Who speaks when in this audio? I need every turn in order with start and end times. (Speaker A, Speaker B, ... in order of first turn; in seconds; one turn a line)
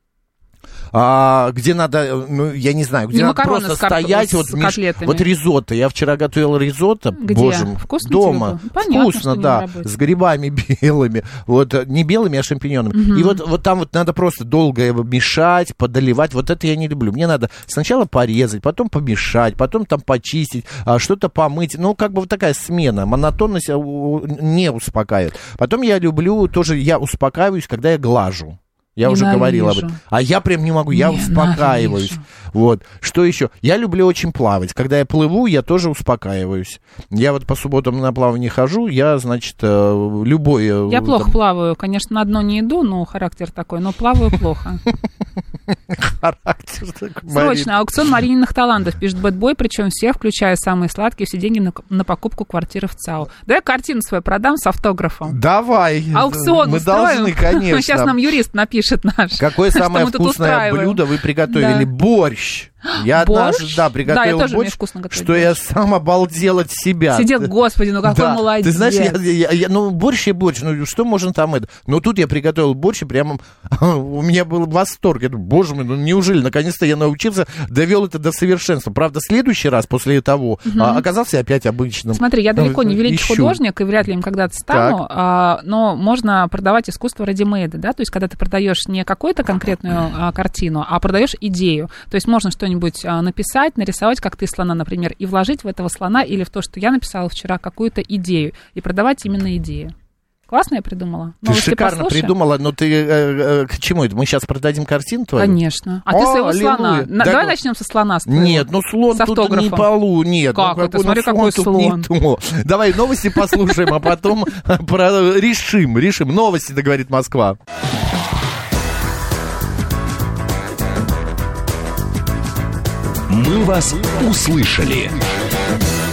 Speaker A: 0.9-41.3
Speaker B: 3.1-5.3
Speaker B: 7.2-9.9
Speaker B: 12.9-13.4
Speaker B: 29.0-30.0
Speaker B: 30.9-32.2
Speaker B: 40.9-44.8
Speaker A: 45.9-47.7
Speaker B: 47.3-55.4
Speaker A: 55.3-58.1
Speaker B: 56.1-61.9
Speaker A: 59.4-67.5
Speaker B: 62.8-65.5
Speaker B: 67.1-69.2
Speaker A: 68.0-83.6
Speaker B: 80.7-81.0
Speaker B: 82.1-99.9
Speaker A: 84.7-85.0
Speaker B: 100.5-102.3
Speaker A: 101.4-107.6
Speaker B: 105.3-109.9
Speaker A: 108.2-117.6
Speaker B: 110.5-112.1
Speaker C: 123.3-125.2